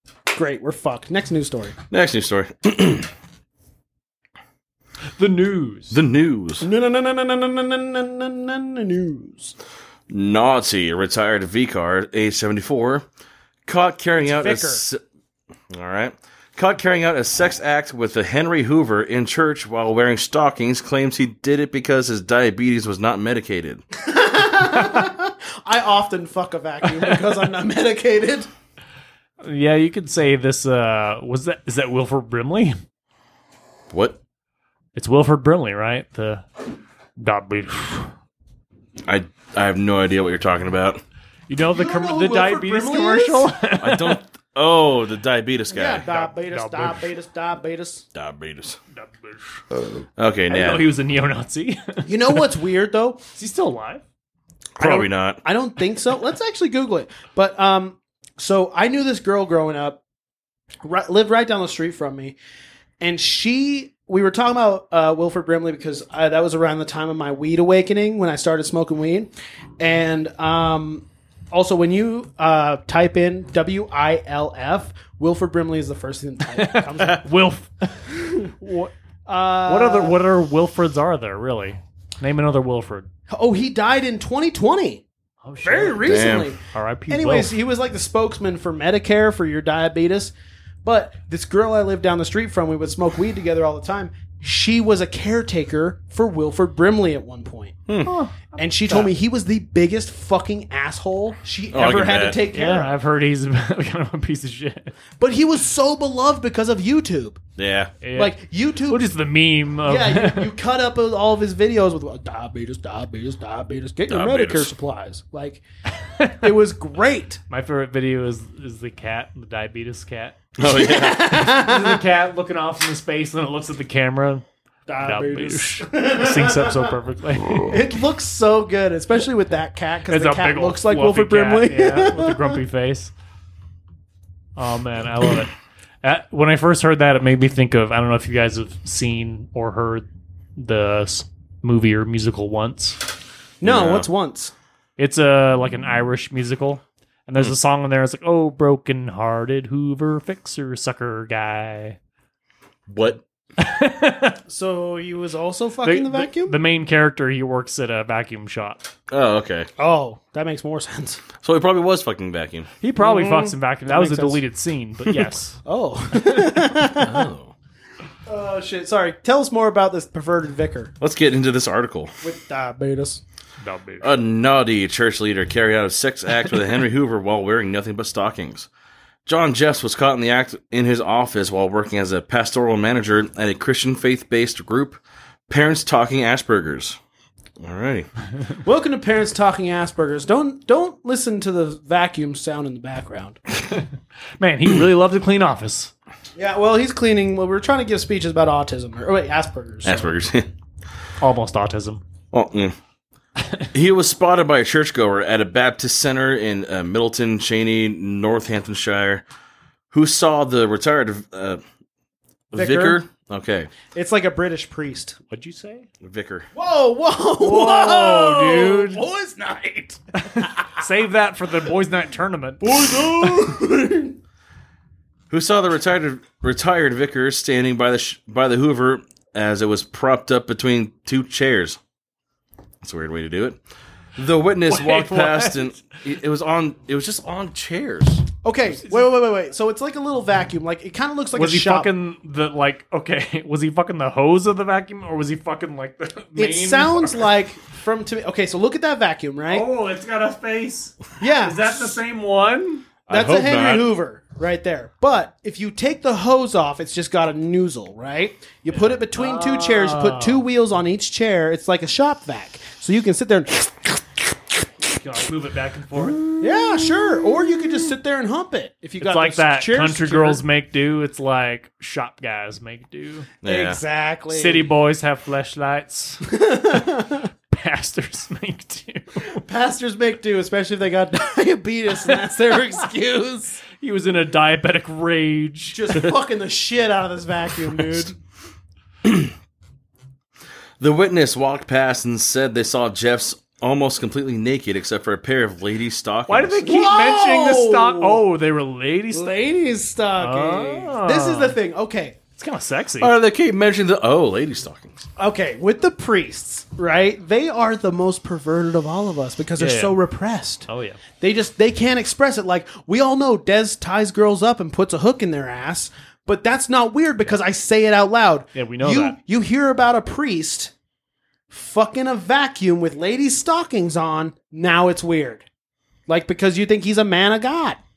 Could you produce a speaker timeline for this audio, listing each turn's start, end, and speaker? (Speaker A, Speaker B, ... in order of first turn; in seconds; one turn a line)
Speaker A: 0.3-1.8
Speaker B: 1.9-3.1
Speaker C: 5.2-6.0
Speaker B: 5.9-6.7
Speaker A: 6.6-9.5
Speaker B: 10.1-13.1
Speaker B: 13.7-15.0
Speaker A: 14.2-14.8
Speaker B: 15.7-23.8
Speaker A: 24.0-28.5
Speaker C: 29.4-32.8
Speaker B: 33.9-34.2
Speaker C: 35.0-36.5
Speaker C: 37.2-38.1
Speaker B: 39.0-41.0
Speaker C: 41.5-44.2
Speaker A: 41.7-43.5
Speaker B: 43.8-46.0
Speaker A: 45.7-48.0
Speaker C: 46.1-47.1
Speaker B: 48.1-48.8
Speaker C: 48.9-49.6
Speaker B: 49.8-50.9
Speaker C: 50.5-52.4
Speaker A: 52.0-53.2
Speaker C: 53.4-54.0
Speaker B: 54.8-55.4
Speaker A: 54.8-60.0
Speaker A: 60.8-62.3
Speaker A: 63.0-77.3
Speaker C: 76.5-78.9
Speaker A: 79.2-80.2
Speaker C: 79.7-83.1
Speaker A: 83.3-85.0
Speaker C: 85.4-86.1
Speaker A: 85.6-90.3
Speaker B: 86.0-86.5
Speaker C: 86.7-87.5
Speaker A: 90.8-97.8
Speaker C: 98.0-99.1
Speaker A: 98.5-102.9
Speaker B: 101.7-102.4
Speaker C: 102.5-104.9
Speaker A: 105.2-107.4
Speaker B: 107.6-107.9
Speaker C: 108.0-108.3
Speaker A: 108.1-109.0
Speaker C: 108.9-110.5
Speaker A: 109.8-115.6
Speaker B: 114.1-114.7
Speaker C: 115.9-116.5
Speaker A: 116.4-117.4
Speaker C: 117.5-120.3
Speaker B: 120.6-121.4
Speaker A: 120.6-122.0
Speaker C: 121.2-124.4
Speaker A: 124.9-126.9
Speaker C: 125.0-127.7
Speaker A: 127.5-132.6
Speaker C: 130.1-133.1
Speaker C: 134.6-143.0
Speaker A: 143.6-144.5
Speaker B: 143.6-144.1
Speaker C: 145.0-152.0
Speaker B: 152.9-153.2
Speaker C: 153.6-154.4
Speaker A: 154.5-156.5
Speaker C: 155.8-158.9
Speaker B: 159.1-159.7
Speaker A: 159.8-161.2
Speaker B: 161.4-162.7
Speaker C: 162.8-165.6
Speaker A: 163.0-164.4
Speaker A: 165.6-167.3
Speaker B: 166.9-167.5
Speaker A: 168.2-170.9
Speaker B: 171.0-172.1
Speaker A: 172.2-173.2
Speaker C: 173.6-174.1
Speaker B: 174.0-178.7
Speaker B: 179.2-187.0
Speaker B: 187.6-188.1
Speaker A: 188.6-193.4
Speaker C: 194.4-195.9
Speaker A: 196.3-200.1
Speaker B: 199.8-200.5
Speaker C: 201.2-202.0
Speaker B: 202.3-202.8
Speaker C: 203.4-203.7
Speaker B: 203.7-209.2
Speaker B: 209.9-211.6
Speaker B: 212.5-213.7
Speaker A: 212.5-213.0
Speaker A: 213.8-215.2
Speaker C: 215.3-215.9
Speaker B: 216.0-216.5
Speaker A: 216.5-220.7
Speaker C: 217.4-219.0
Speaker C: 220.2-223.0
Speaker A: 222.6-224.2
Speaker B: 225.3-231.8
Speaker B: 232.8-233.6
Speaker B: 234.2-238.3
Speaker C: 234.7-235.8
Speaker A: 238.4-241.9
Speaker C: 241.3-247.3
Speaker A: 246.3-249.7
Speaker C: 249.5-252.9
Speaker A: 251.2-252.0
Speaker B: 253.1-253.9
Speaker A: 253.1-264.2
Speaker C: 258.7-260.4
Speaker C: 264.9-266.7
Speaker A: 266.3-270.4
Speaker C: 269.0-273.3
Speaker B: 273.4-273.8
Speaker A: 273.4-274.6
Speaker C: 274.3-276.3
Speaker A: 276.3-277.3
Speaker C: 277.5-279.4
Speaker A: 279.3-283.6
Speaker C: 283.8-285.9
Speaker A: 285.7-288.1
Speaker B: 289.0-289.3
Speaker B: 290.8-296.6
Speaker C: 296.3-299.3
Speaker A: 296.6-298.2
Speaker A: 299.1-302.2
Speaker C: 300.2-301.6
Speaker C: 302.4-303.1
Speaker B: 303.0-305.1
Speaker A: 305.2-310.7
Speaker C: 309.6-310.0
Speaker C: 310.7-311.0
Speaker A: 311.2-320.7
Speaker C: 318.5-319.2
Speaker A: 321.5-325.4
Speaker A: 326.1-327.8